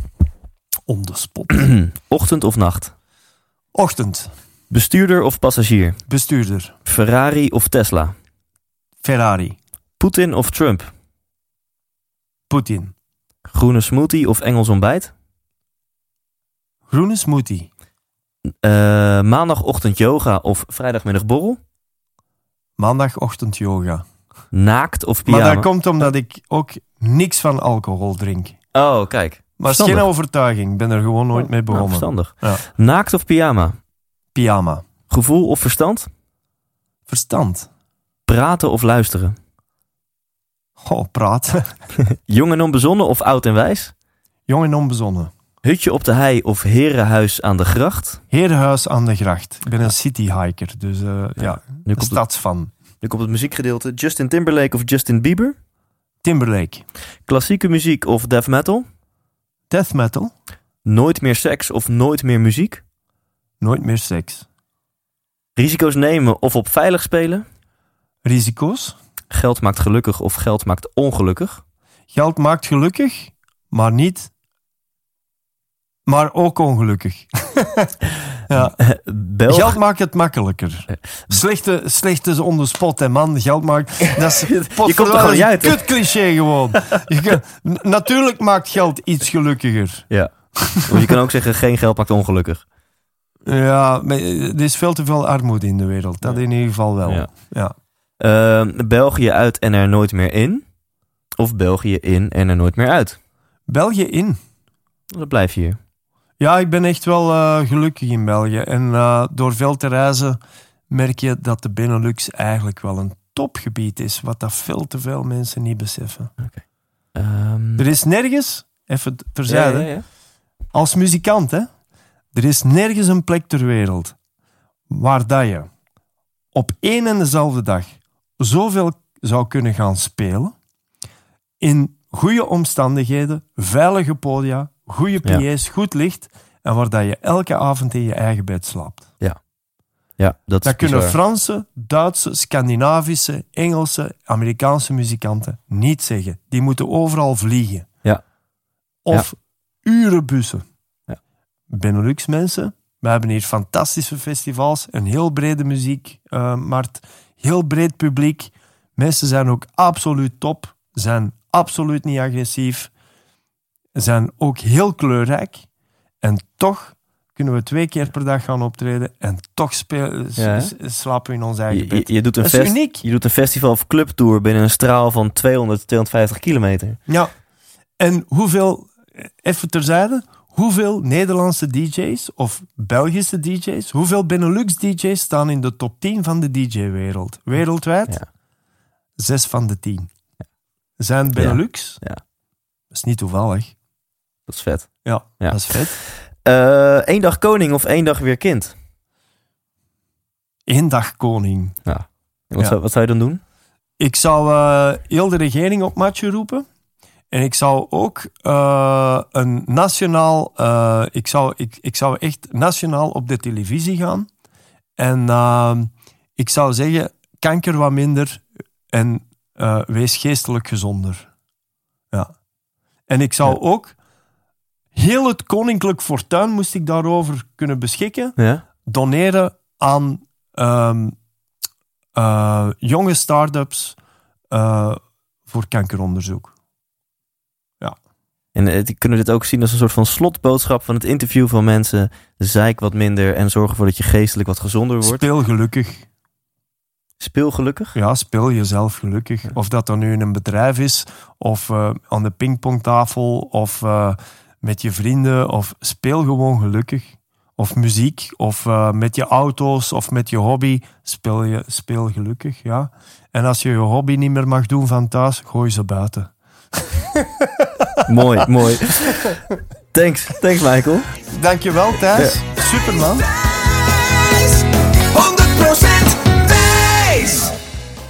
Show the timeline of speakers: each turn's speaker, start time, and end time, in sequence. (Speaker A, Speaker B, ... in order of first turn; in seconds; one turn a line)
Speaker A: 0.9-1.7
Speaker B: 1.5-2.9
Speaker A: 3.8-4.3
Speaker B: 4.7-6.0
Speaker A: 6.1-6.8
Speaker B: 6.9-8.2
Speaker A: 9.0-9.6
Speaker B: 10.0-10.9
Speaker A: 12.5-12.9
Speaker B: 13.5-15.1
Speaker A: 16.9-17.7
Speaker B: 18.6-21.6
Speaker A: 22.8-24.1
Speaker B: 24.5-25.7
Speaker A: 25.3-28.6
Speaker B: 28.7-30.1
Speaker A: 29.6-32.6
Speaker B: 31.4-33.8
Speaker A: 34.4-34.9
Speaker B: 35.1-36.1
Speaker A: 37.1-37.7
Speaker B: 38.3-39.4
Speaker A: 40.8-41.8
Speaker B: 42.3-43.9
Speaker A: 44.5-45.3
Speaker B: 45.6-48.2
Speaker A: 48.3-52.7
Speaker B: 51.4-52.2
Speaker B: 53.0-55.5
Speaker A: 56.2-56.8
Speaker B: 57.3-58.9
Speaker A: 59.7-60.3
Speaker B: 60.9-62.8
Speaker A: 63.6-64.5
Speaker B: 65.6-67.5
Speaker A: 68.2-69.0
Speaker B: 69.3-71.6
Speaker A: 72.1-74.3
Speaker A: 76.1-77.9
Speaker A: 78.5-78.8
Speaker B: 78.6-79.8
Speaker A: 79.5-90.9
Speaker B: 84.4-85.8
Speaker B: 90.1-92.7
Speaker A: 93.5-97.7
Speaker B: 97.0-97.3
Speaker B: 98.2-100.7
Speaker B: 101.4-103.2
Speaker A: 103.7-104.4
Speaker B: 105.1-105.8
Speaker A: 106.4-116.3
Speaker B: 117.1-117.9
Speaker A: 117.8-120.1
Speaker B: 119.5-120.1
Speaker A: 120.7-121.7
Speaker A: 122.3-124.2
Speaker A: 124.9-125.7
Speaker A: 126.5-130.6
Speaker A: 131.6-139.1
Speaker B: 140.2-141.2
Speaker A: 140.6-147.9
Speaker A: 149.1-150.7
Speaker A: 151.7-162.9
Speaker A: 163.9-165.7
Speaker A: 166.2-173.0
Speaker B: 170.4-170.7
Speaker B: 171.7-177.0
Speaker A: 177.1-177.3
Speaker A: 178.0-188.2
Speaker A: 189.2-190.1
Speaker A: 191.0-192.0
Speaker B: 191.4-192.2
Speaker A: 192.9-193.8
Speaker B: 194.5-198.8
Speaker A: 195.0-195.9
Speaker A: 200.7-201.8
Speaker B: 201.8-203.4
Speaker A: 204.0-206.7
Speaker A: 207.3-214.3
Speaker A: 215.0-221.3
Speaker A: 223.1-224.0
Speaker A: 224.9-231.2
Speaker B: 228.4-228.6
Speaker A: 232.2-234.0
Speaker A: 234.5-236.5
Speaker B: 238.6-245.2
Speaker A: 245.0-246.1
Speaker B: 247.2-248.0
Speaker A: 247.9-268.1
Speaker B: 268.1-269.4
Speaker B: 269.9-271.1
Speaker A: 271.3-273.3
Speaker C: 273.1-277.6